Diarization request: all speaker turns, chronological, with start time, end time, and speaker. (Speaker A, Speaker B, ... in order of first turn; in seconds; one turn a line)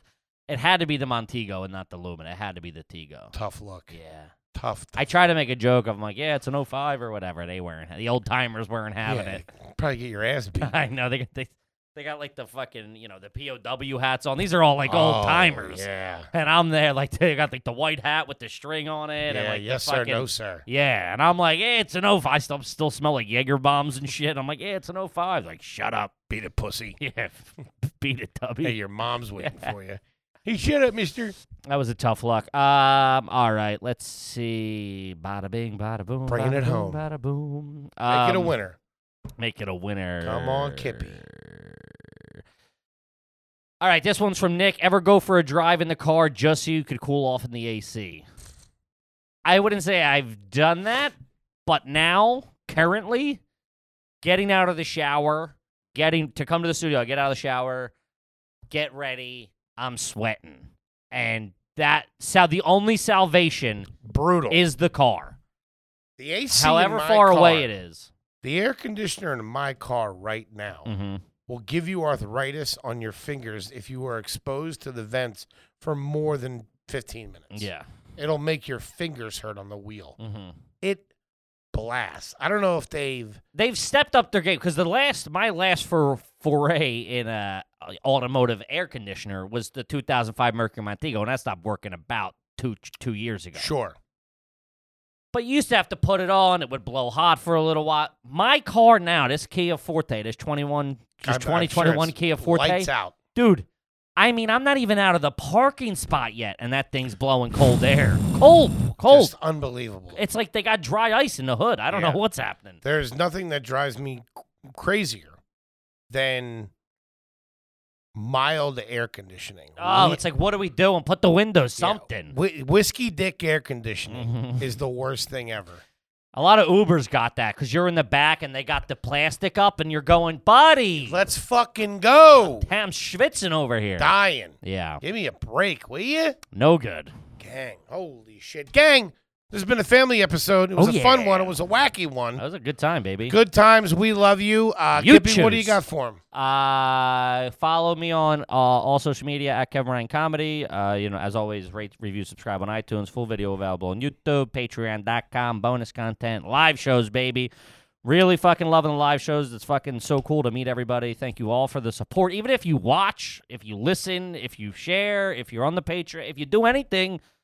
Speaker A: 0.5-3.3
Speaker B: 3.3-3.9
Speaker A: 3.9-4.3
Speaker B: 4.5-5.0
Speaker A: 5.0-9.4
Speaker B: 9.0-10.7
Speaker A: 10.6-26.2
Speaker B: 14.9-16.3
Speaker B: 19.3-20.6
Speaker B: 26.3-27.0
Speaker A: 27.0-28.7
Speaker B: 28.6-31.4
Speaker A: 29.4-29.7
Speaker A: 31.7-38.5
Speaker B: 36.3-37.0
Speaker B: 38.1-38.8
Speaker A: 39.4-42.3
Speaker B: 40.2-41.2
Speaker A: 43.8-48.2
Speaker A: 49.4-51.1
Speaker A: 51.6-53.4
Speaker A: 54.2-57.9
Speaker A: 58.7-63.9
Speaker B: 64.0-64.6
Speaker A: 64.5-65.3
Speaker B: 66.2-67.7
Speaker A: 66.5-68.1
Speaker B: 68.4-70.9
Speaker A: 70.8-71.2
Speaker B: 71.5-80.2
Speaker A: 77.5-77.8
Speaker A: 80.2-80.5
Speaker B: 81.7-83.4
Speaker A: 83.5-93.7
Speaker B: 93.6-94.0
Speaker A: 95.3-103.6
Speaker B: 101.2-103.1
Speaker A: 104.2-109.3
Speaker B: 109.0-110.2
Speaker A: 110.1-112.8
Speaker B: 111.9-112.2
Speaker B: 112.8-115.4
Speaker B: 116.1-116.7
Speaker B: 118.1-120.2
Speaker A: 119.8-122.3
Speaker B: 121.8-125.8
Speaker A: 124.1-124.6
Speaker A: 126.3-131.2
Speaker B: 131.0-132.7
Speaker A: 132.4-135.0
Speaker B: 134.0-136.4
Speaker A: 136.5-137.1
Speaker B: 137.4-142.4
Speaker A: 140.8-141.5
Speaker A: 142.4-143.3
Speaker B: 143.3-146.2
Speaker A: 144.9-145.8
Speaker A: 146.3-157.5
Speaker A: 158.0-167.2